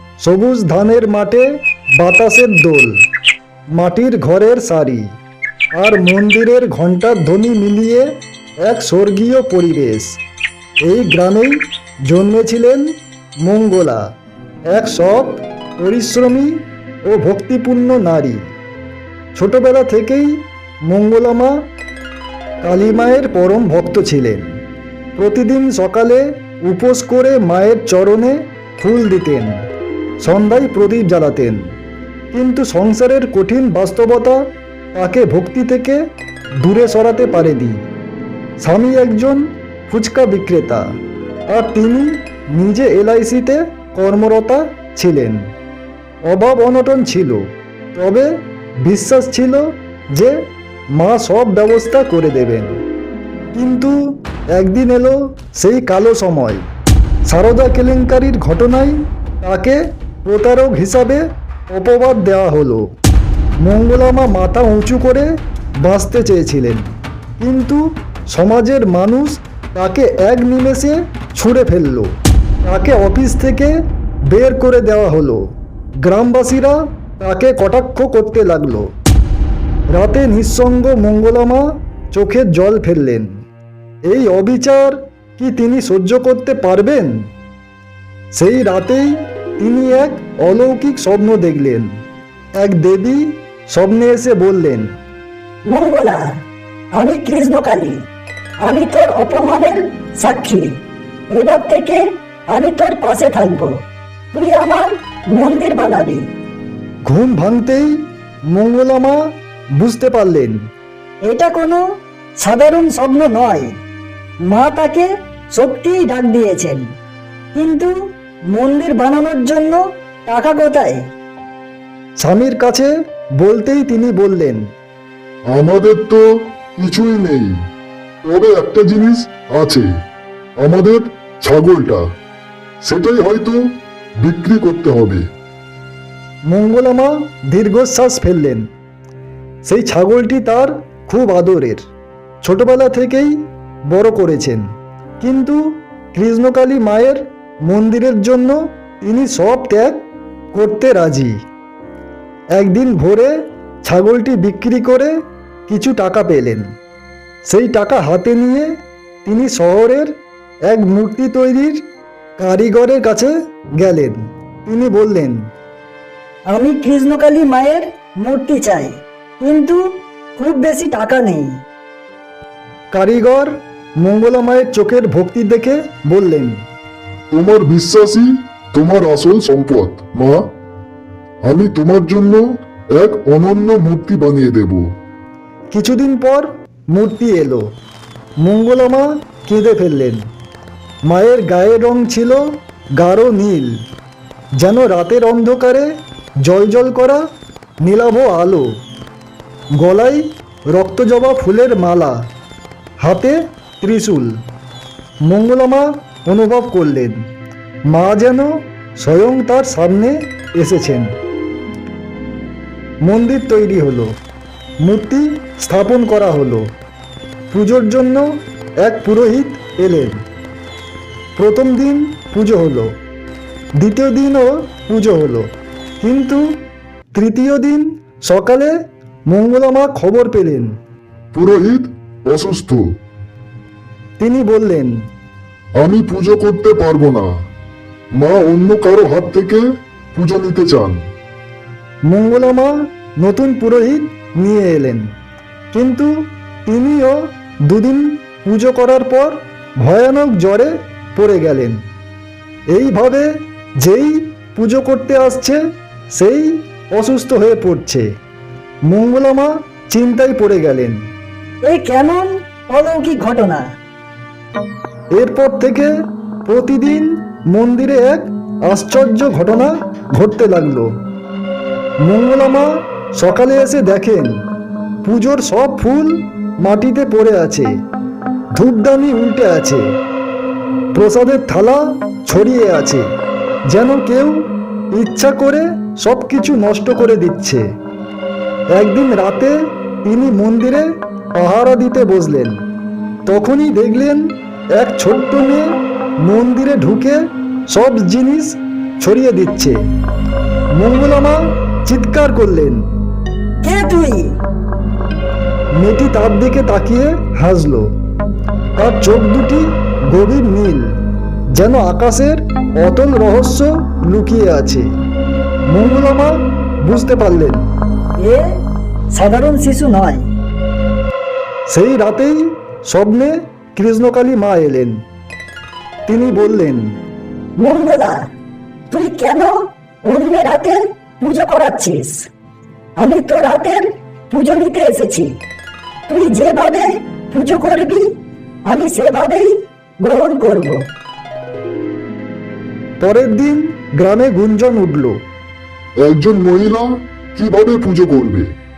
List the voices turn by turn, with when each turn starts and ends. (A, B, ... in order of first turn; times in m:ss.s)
0:00.2-0:03.0 A
0:03.7-0:05.2 A
0:05.7-0:10.2 A
0:10.8-0:14.0 A
0:14.7-0:18.5 A
0:19.3-0:21.6 A
0:22.6-0:24.6 A
0:25.2-0:29.6 A
0:30.2-0:31.7 A
0:32.3-0:36.0 A
0:36.6-0:37.8 A
0:38.6-0:40.8 A
0:41.5-0:45.4 A
0:46.3-0:50.4 A
0:51.0-0:52.8 A
0:53.5-0:54.0 A
0:54.5-0:56.6 A
0:57.3-1:02.9 A
1:03.6-1:12.1 A
1:12.6-1:13.7 A
1:14.3-1:15.4 A
1:16.0-1:18.9 A
1:19.9-1:23.4 A
1:24.0-1:27.3 A
1:28.3-1:32.0 A
1:32.6-1:35.0 A
1:35.6-1:36.4 B
1:36.9-1:38.0 B
1:38.6-1:46.3 B
1:47.0-1:50.6 A
1:51.2-1:51.8 B
1:52.4-1:53.7 B
1:54.5-1:56.9 B
1:57.5-1:57.9 B
1:58.5-2:01.1 B
2:02.2-2:04.7 A
2:05.5-2:07.5 C
2:08.2-2:09.9 C
2:10.6-2:12.0 C
2:12.8-2:13.6 C
2:14.2-2:15.2 C
2:16.5-2:18.7 A
2:19.6-2:21.8 A
2:22.4-2:24.7 A
2:25.2-2:31.4 A
2:32.5-2:35.1 A
2:35.7-2:36.7 A
2:37.4-2:38.7 A
2:39.2-2:40.1 A
2:40.7-2:41.8 A
2:42.4-2:45.5 A
2:46.5-2:49.8 B
2:50.4-2:51.6 B
2:52.9-2:56.6 A
2:57.3-3:00.5 C
3:01.4-3:04.9 C
3:05.7-3:07.7 A
3:08.4-3:10.2 A
3:11.1-3:13.8 A
3:14.6-3:17.2 A
3:17.8-3:18.7 A
3:19.7-3:22.3 A
3:23.0-3:24.4 A
3:25.2-3:27.3 A
3:27.9-3:31.2 A
3:33.0-3:34.1 A
3:34.8-3:36.7 A
3:37.5-3:40.2 A
3:41.4-3:42.9 A
3:43.8-3:46.6 A
3:47.1-3:48.7 A
3:49.3-3:50.8 A
3:51.3-3:52.8 C
3:54.2-3:55.0 A
3:55.8-3:57.3 C
3:58.2-4:01.0 C
4:02.1-4:05.1 A
4:05.7-4:11.8 A
4:12.7-4:15.6 A
4:16.1-4:18.1 A
4:18.9-4:21.1 A
4:21.6-4:23.6 B
4:25.1-4:25.9 A
4:26.4-4:30.9 A
4:32.0-4:34.4 A
4:35.0-4:37.7 A
4:38.6-4:39.8 A
4:40.9-4:43.0 A
4:43.7-4:47.6 A
4:48.7-4:52.6 A
4:53.3-4:59.8 A
5:00.8-5:02.8 A
5:03.6-5:04.4 B
5:05.8-5:07.9 A
5:08.8-5:11.0 A
5:11.5-5:14.9 A
5:15.7-5:17.7 A
5:18.2-5:18.5 B
5:19.1-5:20.3 B
5:21.7-5:25.0 A
5:26.1-5:27.0 A
5:27.6-5:28.3 B
5:28.9-5:32.3 B
5:33.0-5:35.4 B
5:36.1-5:40.9 B
5:43.0-5:45.2 A
5:46.0-5:48.5 C